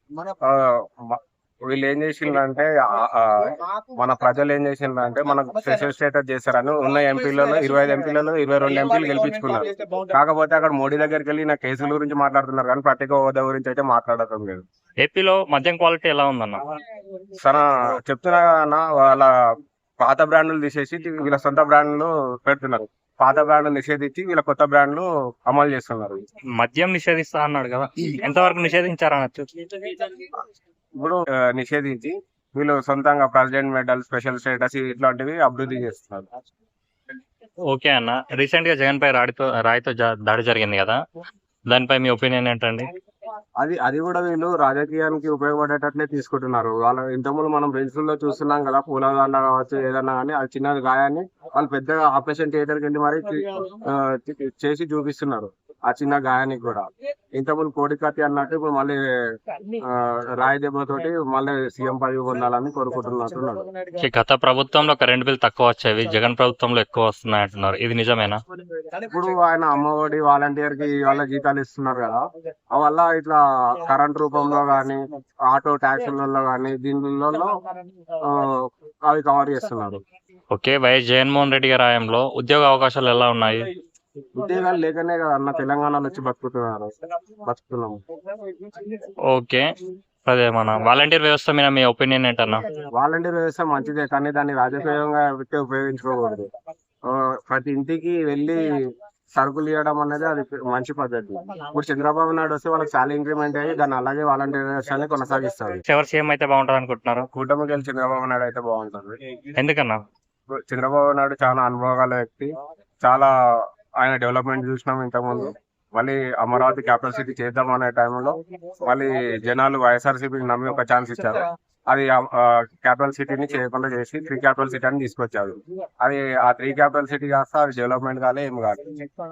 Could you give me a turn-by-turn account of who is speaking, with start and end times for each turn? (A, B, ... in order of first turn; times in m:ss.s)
0:00.5-0:14.6 A
0:15.0-0:16.7 B
0:17.4-0:19.3 A
0:20.0-0:26.2 A
0:26.6-0:30.1 B
0:31.0-0:36.3 A
0:37.7-0:41.0 B
0:41.7-0:42.9 B
0:43.6-0:59.0 A
0:59.8-1:03.7 A
1:04.0-1:08.4 B
1:09.0-1:12.2 A
1:12.8-1:17.6 A
1:18.2-1:20.0 A
1:20.5-1:23.7 B
1:24.4-1:26.9 A
1:27.4-1:28.0 A
1:29.3-1:29.7 B
1:30.3-1:32.6 B
1:33.0-1:36.5 A
1:37.1-1:38.8 A
1:39.4-1:45.8 A
1:45.9-1:47.3 B
1:47.3-1:49.2 A
1:49.6-1:50.0 B
1:50.6-1:52.5 A
1:53.0-1:53.3 A
1:54.0-2:09.0 A